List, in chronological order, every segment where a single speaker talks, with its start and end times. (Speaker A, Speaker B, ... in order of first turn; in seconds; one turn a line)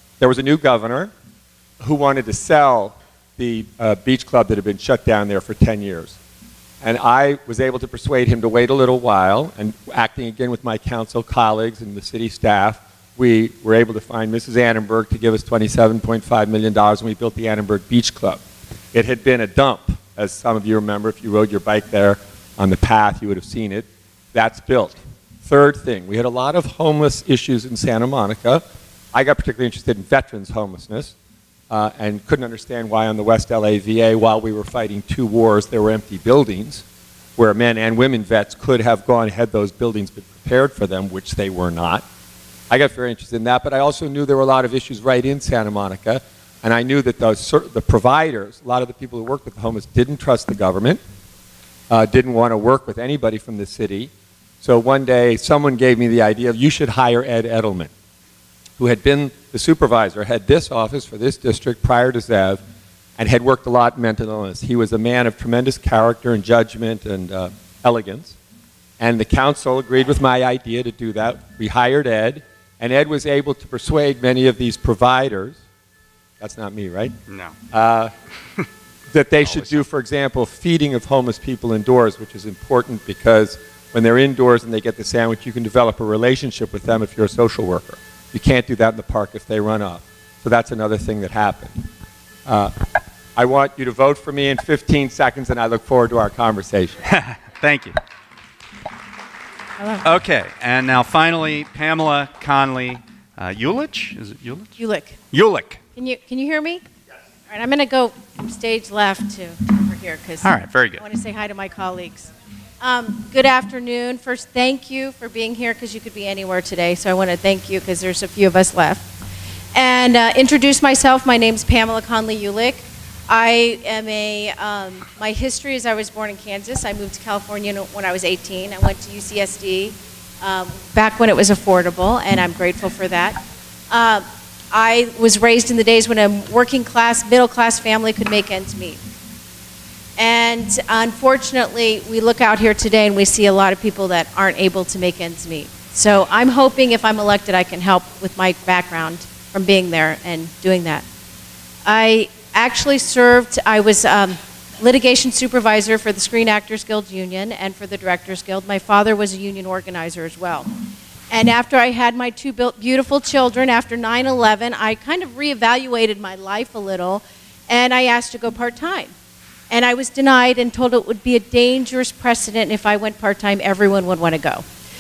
Speaker A: 0.2-1.1
Speaker A: 1.8-6.2
Speaker A: 6.8-18.4
Speaker A: 18.9-31.1
Speaker A: 31.7-36.8
Speaker A: 37.4-42.0
Speaker A: 42.7-51.0
Speaker A: 51.9-54.1
Speaker A: 54.6-57.9
Speaker A: 58.8-62.6
Speaker A: 63.2-68.4
Speaker A: 69.0-75.6
Speaker A: 76.4-77.1
Speaker A: 77.7-78.1
Speaker A: 79.1-91.8
Speaker A: 92.5-92.8
Speaker A: 93.4-97.0
Speaker B: 97.1-98.0
Speaker C: 99.8-100.0
Speaker B: 100.0-104.7
Speaker C: 104.8-105.2
Speaker B: 105.3-105.8
Speaker C: 106.0-106.8
Speaker C: 107.5-119.1
Speaker B: 110.4-111.0
Speaker C: 119.7-139.0
Speaker C: 140.2-151.0
Speaker C: 151.8-160.7
Speaker C: 161.3-169.1
Speaker C: 169.7-174.6